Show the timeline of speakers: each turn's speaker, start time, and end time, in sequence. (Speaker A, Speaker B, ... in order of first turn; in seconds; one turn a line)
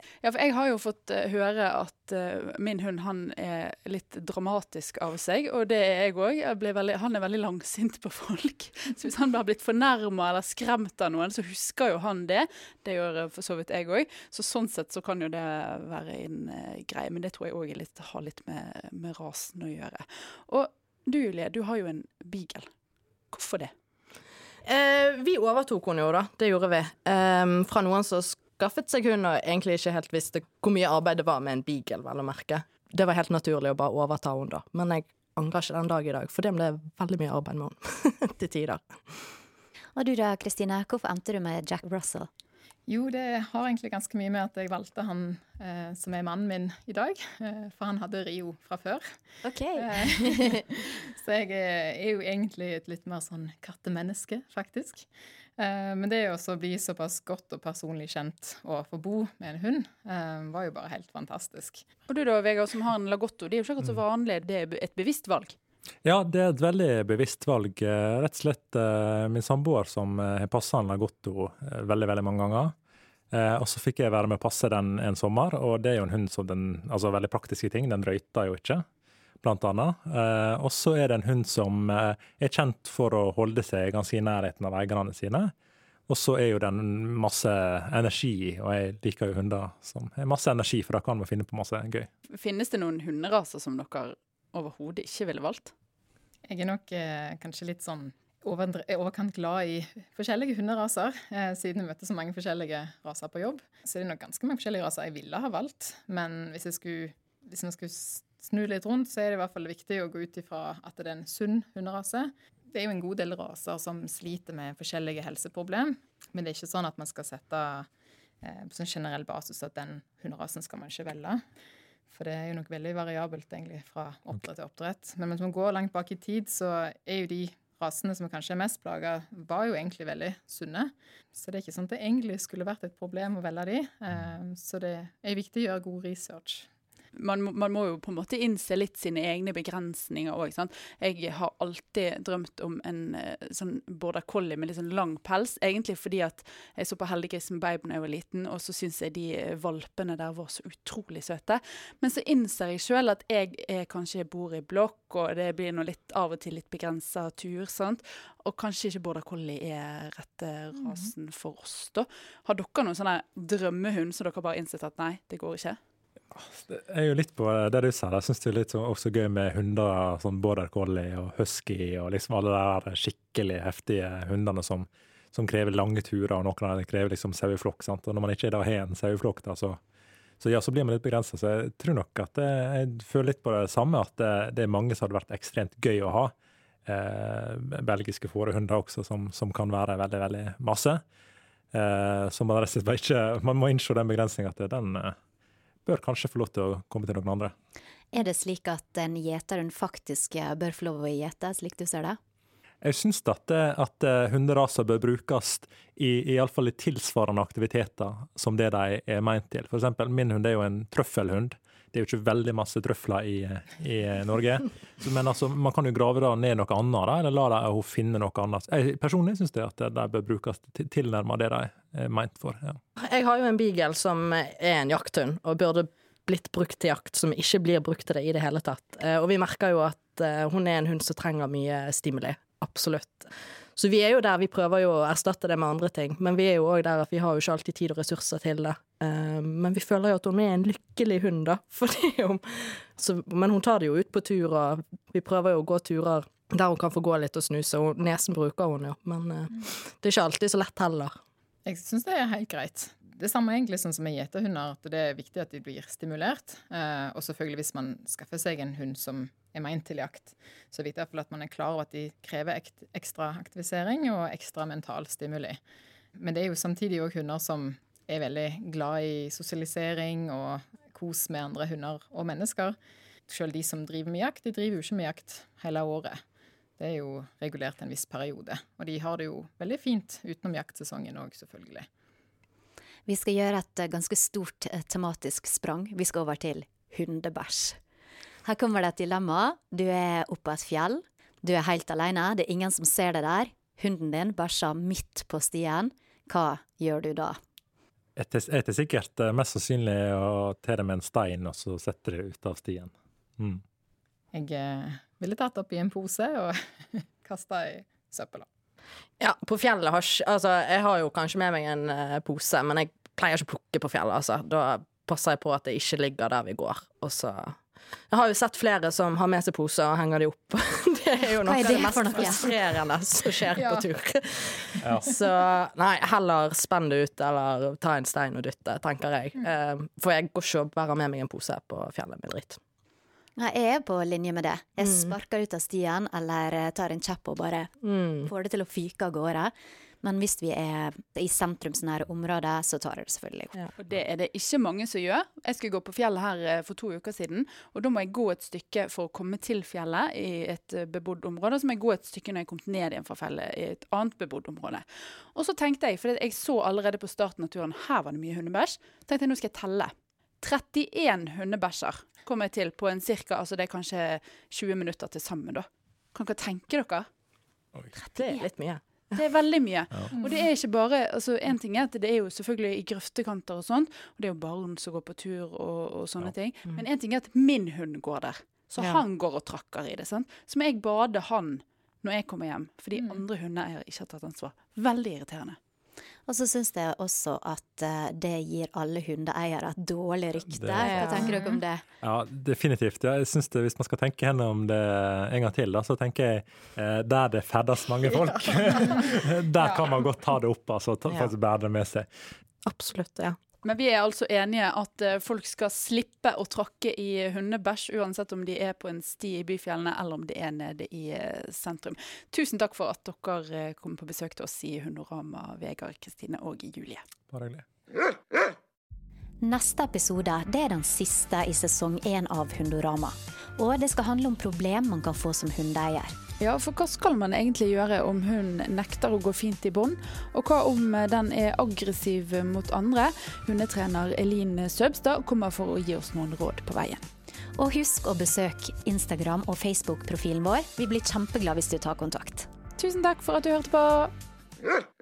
Speaker A: 0.2-22.7
Speaker A: 23.3-23.7
Speaker B: 24.6-39.4
Speaker C: 40.0-42.3
Speaker D: 42.9-49.2
Speaker C: 49.5-50.4
Speaker D: 49.8-61.9
Speaker A: 62.1-65.6
Speaker E: 66.0-72.8
Speaker E: 73.3-78.9
Speaker E: 79.4-85.5
Speaker E: 86.1-92.1
Speaker A: 92.3-95.7
Speaker D: 96.5-117.9
Speaker D: 118.4-121.4
Speaker D: 122.1-136.7
Speaker A: 137.2-165.8
Speaker E: 166.3-179.8
Speaker E: 180.4-186.3
Speaker E: 186.9-191.0
Speaker E: 191.7-195.2
Speaker E: 195.9-197.5
Speaker C: 198.1-202.2
Speaker E: 202.8-222.8
Speaker B: 223.0-251.1
Speaker D: 251.7-265.6
Speaker D: 266.2-272.8
Speaker D: 273.3-276.2
Speaker D: 276.8-281.9
Speaker C: 283.1-287.8
Speaker C: 288.4-297.4
Speaker E: 298.2-303.6
Speaker D: 304.3-308.4
Speaker B: 309.2-317.6
Speaker B: 318.1-332.6
Speaker C: 321.4-322.5
Speaker D: 323.5-323.9
Speaker C: 333.4-337.7
Speaker B: 334.8-335.1
Speaker B: 337.8-338.3
Speaker C: 338.2-343.5
Speaker A: 343.8-367.1
Speaker B: 368.1-369.2
Speaker A: 368.2-368.4
Speaker A: 369.1-385.6
Speaker C: 386.3-391.8
Speaker E: 390.6-390.9
Speaker B: 390.9-391.2
Speaker E: 392.0-402.1
Speaker B: 402.6-403.4
Speaker A: 403.6-417.0
Speaker E: 417.3-417.6
Speaker C: 419.4-426.1
Speaker A: 426.4-437.1
Speaker C: 437.6-442.5
Speaker A: 442.8-444.1